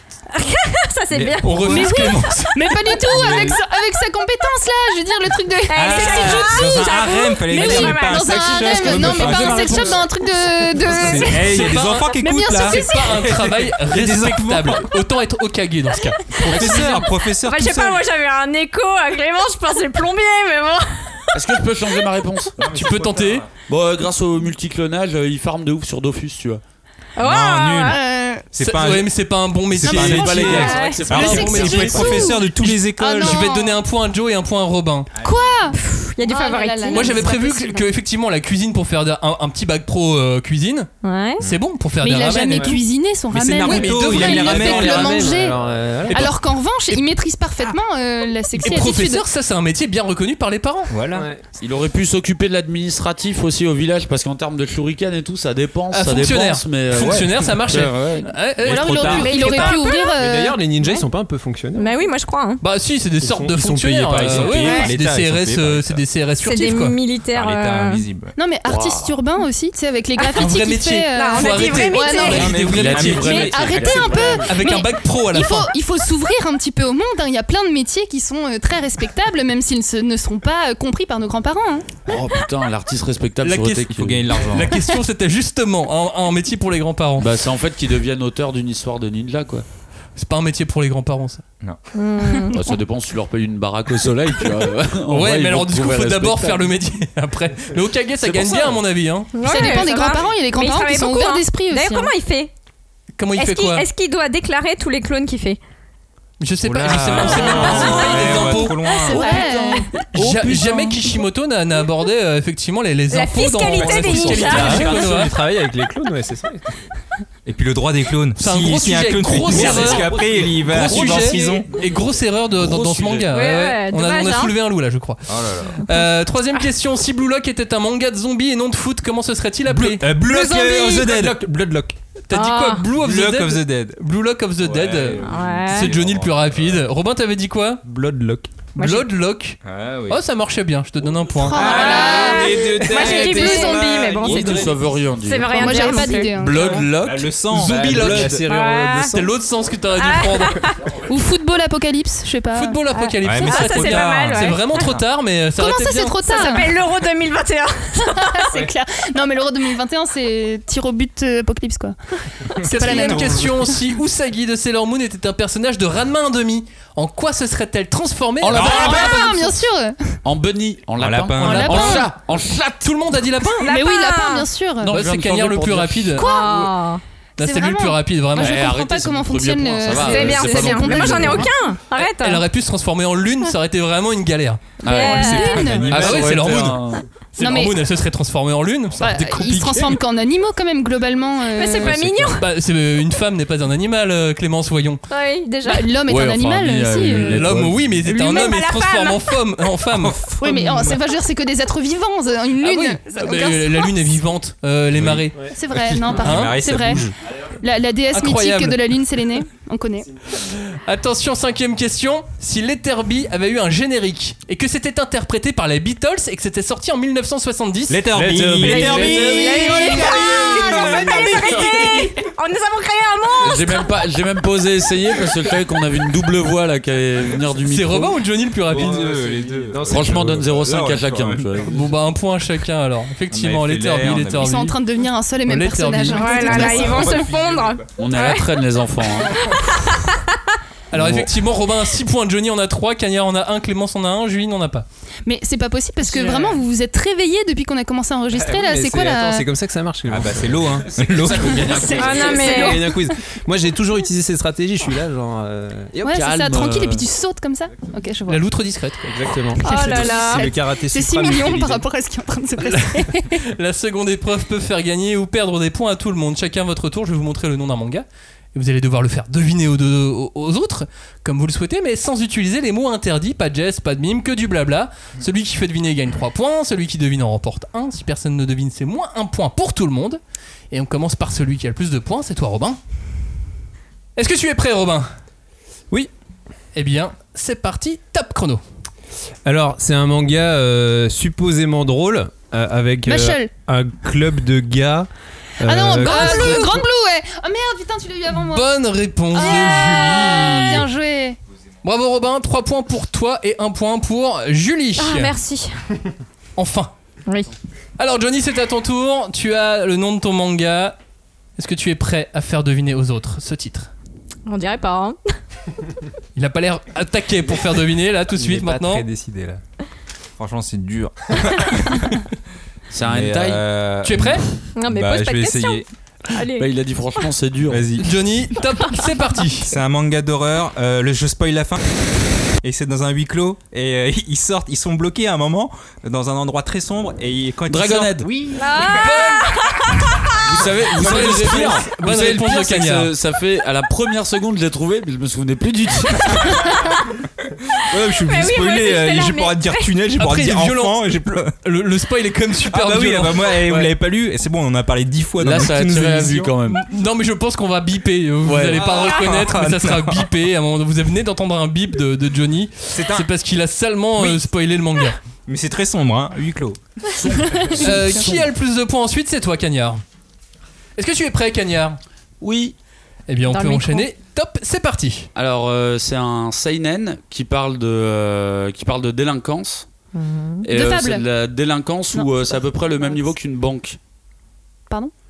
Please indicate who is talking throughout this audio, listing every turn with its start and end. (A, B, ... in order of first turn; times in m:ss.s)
0:00.3-0:03.0 A
0:01.1-0:03.6 B
0:01.4-0:02.5 C
0:01.7-0:13.2 D
0:05.7-0:09.4 A
0:05.7-0:10.1 B
0:10.8-0:14.9 B
0:11.2-0:17.0 C
0:16.3-0:18.0 B
0:16.3-0:21.3 A
0:21.3-0:22.6 E
0:22.6-0:23.5 B
0:22.7-0:23.4 C
0:23.7-0:26.6 E
0:27.2-0:28.0 A
0:27.2-0:28.0 B
0:27.8-0:28.4 D
0:28.5-0:29.1 B
0:28.6-0:32.0 C
0:29.7-0:33.4 B
0:29.8-0:33.8 D
0:30.0-0:32.3 E
0:30.6-0:31.0 A
0:33.2-0:35.1 C
0:35.2-0:35.6 B
0:35.2-0:37.9 D
0:35.7-0:37.2 A
0:36.9-0:42.8 C
0:41.0-0:41.4 A
0:42.0-0:45.6 D
0:42.5-0:42.8 F
0:43.3-0:45.1 B
0:43.6-0:44.0 C
0:44.0-0:46.3 F
0:44.3-0:45.5 E
0:46.1-0:46.4 C
0:46.1-0:49.2 D
0:48.6-0:50.9 C
0:50.9-0:51.3 B
0:51.1-0:51.4 F
0:51.6-0:58.3 E
0:55.9-0:59.8 C
0:58.6-0:59.5 B
0:58.6-1:00.6 D
0:59.1-1:00.2 A
1:00.2-1:01.9 F
1:01.8-1:02.6 A
1:02.6-1:07.0 C
1:03.2-1:04.8 F
1:04.1-1:06.0 B
1:04.5-1:04.9 A
1:06.4-1:08.0 A
1:07.3-1:08.3 B
1:08.4-1:22.1 D
1:08.6-1:09.2 E
1:10.2-1:10.5 A
1:10.4-1:13.5 C
1:11.1-1:12.4 A
1:12.3-1:14.5 B
1:12.3-1:14.4 E
1:14.4-1:15.7 C
1:22.0-1:24.3 E
1:23.4-1:27.3 C
1:23.9-1:24.7 B
1:27.2-1:29.6 E
1:30.2-1:31.4 C
1:31.9-1:32.6 A
1:32.5-1:36.7 E
1:35.1-1:39.8 C
1:38.2-1:38.8 E
1:39.4-1:42.5 A
1:39.4-1:42.1 D
1:43.2-1:43.9 C
1:43.4-1:45.6 A
1:46.4-1:55.3 C
1:46.6-1:49.3 B
1:47.3-1:48.4 A
1:47.5-1:51.2 D
1:49.1-1:49.7 A
1:53.1-1:55.0 A
1:53.7-1:55.0 B
1:54.4-1:56.6 F
1:57.5-2:01.7 B
1:58.4-2:10.0 C
1:59.5-2:00.7 F
2:00.5-2:03.3 E
2:03.3-2:04.5 A
2:05.3-2:05.8 B
2:09.7-2:11.9 F
2:10.0-2:11.4 B
2:12.3-2:17.8 C
2:12.3-2:12.8 A
2:13.0-2:14.0 B
2:14.6-2:16.9 B
2:15.2-2:15.9 A
2:17.8-2:18.5 F
2:18.8-2:19.1 A
2:18.8-2:19.6 C
2:19.6-2:20.2 B
2:20.1-2:21.9 C
2:21.4-2:23.8 D
2:21.6-2:24.7 B
2:21.6-2:24.7 A
2:23.2-2:24.7 F
2:24.2-2:27.3 E
2:25.2-2:26.3 A
2:25.5-2:26.9 D
2:27.0-2:28.5 B
2:27.5-2:30.6 C
2:27.6-2:29.3 F
2:28.5-2:29.1 A
2:30.0-2:30.8 A
2:31.1-2:32.8 D
2:32.5-2:36.2 C
2:32.9-2:35.0 A
2:33.2-2:34.8 B
2:35.6-2:36.8 D
2:36.2-2:38.5 A
2:38.0-2:42.0 D
2:42.5-2:43.7 D
2:42.7-2:43.7 B
2:42.7-2:49.2 C
2:48.4-2:49.5 E
2:48.5-2:49.5 B
2:48.6-2:50.2 D
2:50.2-2:52.9 E
2:51.0-2:52.0 B
2:51.4-2:52.1 D
2:51.5-2:52.1 C
2:52.8-2:53.7 C
2:53.6-2:54.5 A
2:53.6-2:55.0 D
2:54.8-2:56.6 E
2:54.9-2:56.3 C
2:56.2-2:56.8 D
2:56.2-2:57.0 A
2:57.4-2:58.7 C
2:57.4-3:01.5 D
2:58.4-3:01.5 E
3:00.0-3:02.4 A
3:02.0-3:04.7 C
3:04.8-3:07.1 E
3:04.8-3:05.7 A
3:04.9-3:06.2 D
3:05.3-3:06.5 B
3:05.9-3:10.0 C
3:07.4-3:07.8 D
3:09.0-3:12.1 D
3:11.5-3:12.5 A
3:11.9-3:12.3 B
3:12.3-3:15.0 C
3:15.1-3:15.9 A
3:15.7-3:17.4 D
3:16.1-3:18.0 E
3:17.1-3:20.2 C
3:18.1-3:19.4 A
3:19.9-3:21.0 B
3:20.4-3:24.0 D
3:22.6-3:25.4 C
3:24.9-3:27.1 B
3:25.6-3:27.1 D
3:26.2-3:26.6 C
3:27.6-3:30.1 D
3:28.1-3:28.8 C
3:30.4-3:38.0 C
3:37.9-3:41.9 B
3:38.1-3:42.1 F
3:38.7-3:43.9 A
3:43.4-3:48.2 E
3:47.7-3:49.0 C
3:48.7-3:51.7 B
3:48.7-3:50.4 F
3:49.9-3:51.9 E
3:51.7-3:54.8 C
3:53.3-3:54.5 B
3:54.4-3:57.2 D
3:55.5-3:56.8 C
3:56.1-3:58.5 A
3:56.5-3:57.9 B
3:58.0-3:59.5 E
3:59.5-4:00.4 A
4:00.9-4:04.9 C
4:01.0-4:01.3 B
4:05.2-4:09.5 D
4:06.0-4:06.6 F
4:08.3-4:10.9 F
4:10.1-4:12.0 B
4:11.1-4:12.6 E
4:11.6-4:13.1 D
4:11.9-4:12.9 A
4:12.2-4:16.2 F
4:16.0-4:18.4 D
4:16.1-4:17.1 E
4:18.3-4:19.1 C
4:19.0-4:21.9 F
4:19.6-4:23.4 D
4:19.6-4:20.5 A
4:23.4-4:40.2 C
4:40.7-4:42.8 C
4:44.2-4:45.1 C
4:46.8-4:48.6 C
4:49.4-4:55.1 F
4:53.0-4:53.5 D
4:55.6-4:56.7 F
4:55.6-4:58.7 D
4:56.0-4:56.8 A
4:58.5-5:00.9 C
4:59.3-5:01.4 D
4:59.5-5:00.0 A
5:01.8-5:05.3 C
5:05.0-5:05.7 A
5:06.6-5:06.9 C
5:07.3-5:07.5 A
5:08.0-5:11.0 C
5:11.6-5:13.9 C
5:14.5-5:15.2 A
5:16.4-5:19.1 C
5:18.3-5:19.6 F
5:20.4-5:22.2 B
5:22.9-5:23.6 E
5:23.0-5:25.9 B
5:24.0-5:24.4 C
5:24.8-5:27.3 A
5:26.6-5:27.9 E
5:27.7-5:28.1 B
5:28.0-5:29.7 C
5:29.7-5:31.8 B
5:32.6-5:38.3 B
5:37.7-5:38.3 E
5:38.3-5:38.7 F
5:38.6-5:40.3 A
5:39.0-5:39.5 C
5:40.4-5:46.8 E
5:41.0-5:43.1 C
5:47.8-5:51.5 B
5:48.3-5:49.9 A
5:50.2-5:53.7 C
5:52.7-5:56.6 B
5:55.4-5:56.8 E
5:56.7-6:05.2 C
5:58.4-5:59.0 E
5:58.7-6:00.3 B
6:02.9-6:03.3 B
6:04.2-6:04.4 B
6:05.5-6:06.8 B
6:07.2-6:08.5 E
6:07.6-6:08.0 D
6:07.7-6:10.0 C
6:11.0-6:12.0 C
6:12.4-6:12.8 E
6:13.3-6:15.3 C
6:13.5-6:14.1 A
6:15.4-6:19.9 E
6:20.1-6:20.7 A
6:20.6-6:24.0 E
6:20.7-6:21.3 D